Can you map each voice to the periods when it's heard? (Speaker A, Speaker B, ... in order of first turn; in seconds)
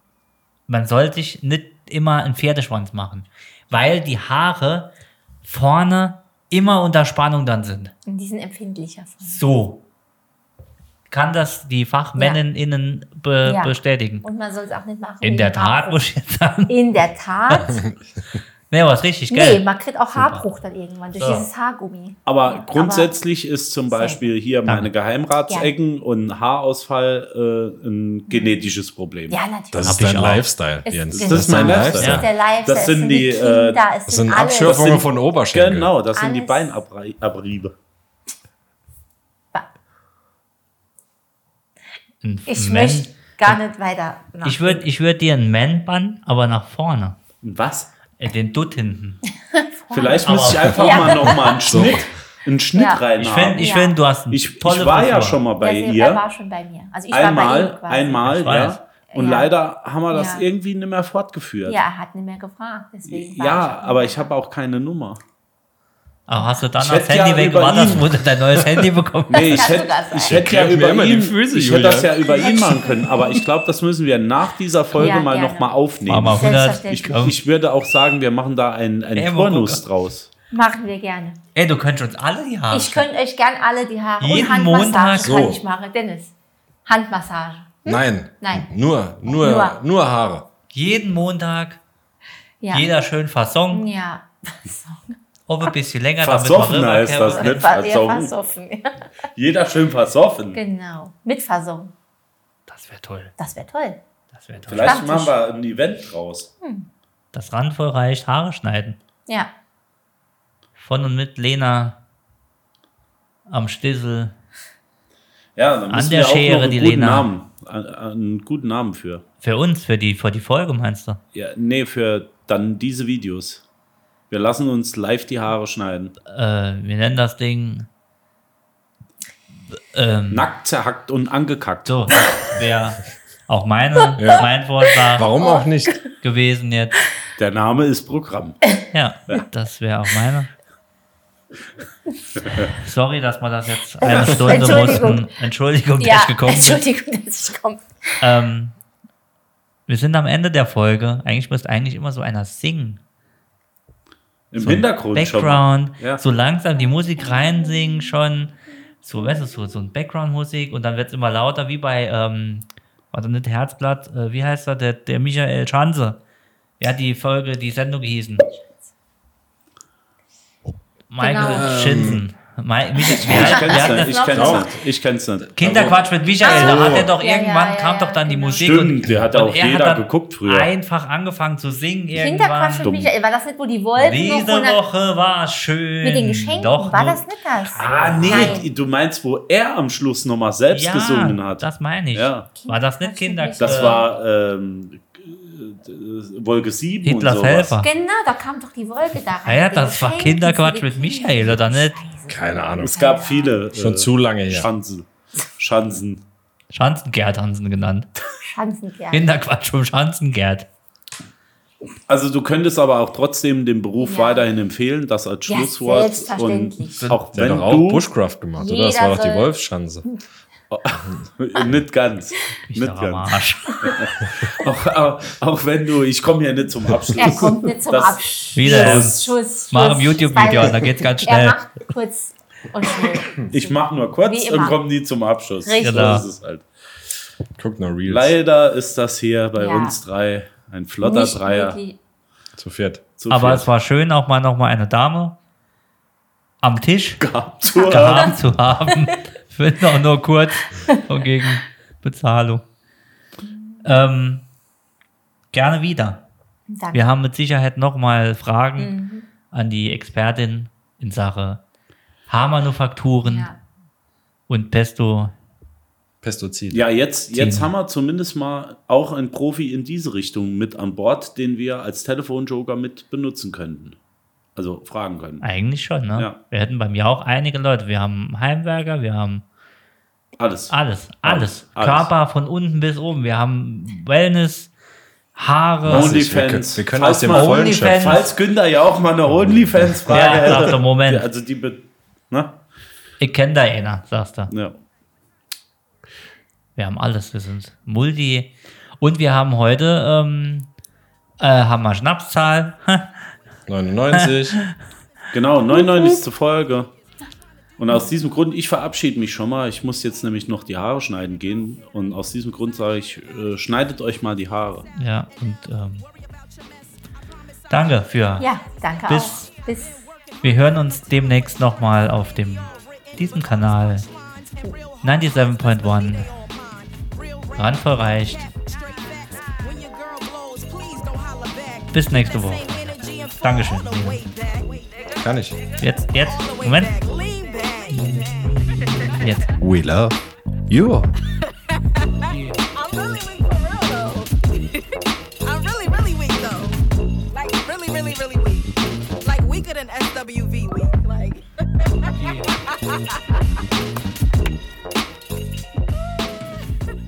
Speaker A: 0.7-4.9, 5.4-7.9, 9.2-9.8, 11.1-14.2, 15.2-16.8, 18.7-20.4, 21.2-21.5, 24.6-24.9, 29.8-30.5, 32.0-32.2, 42.2-43.6, 44.4-47.1, 48.2-49.2, 50.0-51.3, 53.2-55.4, 58.2-58.8, 66.3-69.7, 76.0-77.3, 79.1-79.8, 81.5-83.0, 84.2-85.4, 90.7-91.8, 92.7-93.9, 95.5-97.7, 102.7-103.3, 104.3-105.0, 107.3-109.0, 110.8-112.0, 113.5-114.3, 115.9-117.3, 119.4-121.2, 126.3-127.9, 129.7-130.5, 131.8-135.3, 136.2-137.0, 138.9-140.5, 142.7-146.8, 148.2-148.8, 149.9-153.0, 154.6-166.2, 166.8-168.4, 171.1-174.7, 175.6-182.9, 183.9-188.7, 190.7-194.0, 197.0-197.9, 199.4-202.0, 206.7-208.1, 209.1-210.7, 222.7-223.9, 228.5-231.6, 235.8-236.2, 243.3-245.3, 246.6-252.6, 253.8-254.4, 255.5-256.2, 256.9-258.9, 259.5-261.6, 262.3-263.5, 264.5-265.3, 267.3-267.7, 275.4-279.4, 280.7-284.7, 285.3-286.2, 287.3-288.3, 290.1-291.3, 293.2-294.5, 296.8-300.7, 301.4-303.1, 304.1-304.7, 314.9-316.1, 317.7-318.4, 319.1-319.4, 320.4-324.1, 325.0-326.3, 327.6-328.5, 331.9-334.2, 335.8-336.9, 337.9-339.5
Speaker B: 8.1-9.4, 12.2-12.4, 13.4-16.0, 16.7-17.8, 19.3-23.1, 23.9-24.3, 28.3-28.7, 29.3-30.3, 30.8-35.0, 36.1-36.8, 42.5-44.8, 49.4-51.9, 52.7-53.0, 53.6-54.0, 55.6-58.3, 59.1-59.5, 60.1-60.4, 61.6-64.3, 66.3-66.6, 69.5-70.4, 72.3-73.4, 75.0-77.3, 80.5-81.4, 82.7-86.3, 86.8-88.7, 89.2-89.8, 92.6-92.9, 93.7-95.1, 97.2-99.0, 100.5-101.9, 103.4-104.0, 104.8-105.3, 106.6-106.9, 135.4-135.9, 144.0-145.3, 146.0-148.3, 168.5-168.8, 171.2-171.8, 173.0-174.7, 176.4-178.7, 182.1-184.8, 186.0-188.7, 192.6-194.1, 197.8-203.6, 208.3-209.3, 214.0-214.4, 215.5-217.2, 218.6-219.5, 227.2-234.8, 235.6-236.2, 239.6-240.0, 241.0-242.0, 247.7-248.3, 250.7-251.0, 253.4-253.9, 256.7-257.0, 258.8-259.3, 263.2-263.6, 318.4-320.0
Speaker C: 17.6-18.4, 29.7-32.2, 34.1-35.9, 51.6-52.1, 70.1-72.2, 85.2-85.6, 87.8-90.5, 134.2-134.5, 135.1-135.9, 171.4-172.2, 174.4-174.7, 175.6-177.1, 202.3-202.9, 203.7-204.7, 217.3-220.0, 237.6-238.3, 242.6-243.0, 266.2-266.8, 285.8-288.2, 289.3-290.4, 303.7-304.6, 335.2-335.6, 339.6-341.1
Speaker D: 22.2-29.4, 31.1-33.8, 34.6-37.7, 47.4-47.9, 49.9-53.7, 54.3-56.2, 57.1-61.8, 63.1-65.2, 66.8-68.1, 69.3-80.3, 96.2-98.3, 99.3-100.6, 104.7-106.5, 115.5-119.2, 121.3-123.6, 124.3-126.2, 130.3-131.9, 137.4-138.8, 142.4-142.7, 154.5-156.2, 173.2-177.0, 178.6-180.7, 182.8-183.1, 187.8-192.5, 193.6-197.8, 202.8-206.2, 212.1-218.1, 220.7-229.2, 233.5-236.7, 238.1-241.8, 243.2-243.7, 247.2-248.4, 266.7-274.0, 274.6-275.4, 280.4-282.1, 285.9-292.6, 294.5-294.8, 305.3-306.9, 307.8-314.9
Speaker E: 316.0-318.4, 320.0-339.5, 341.4-353.2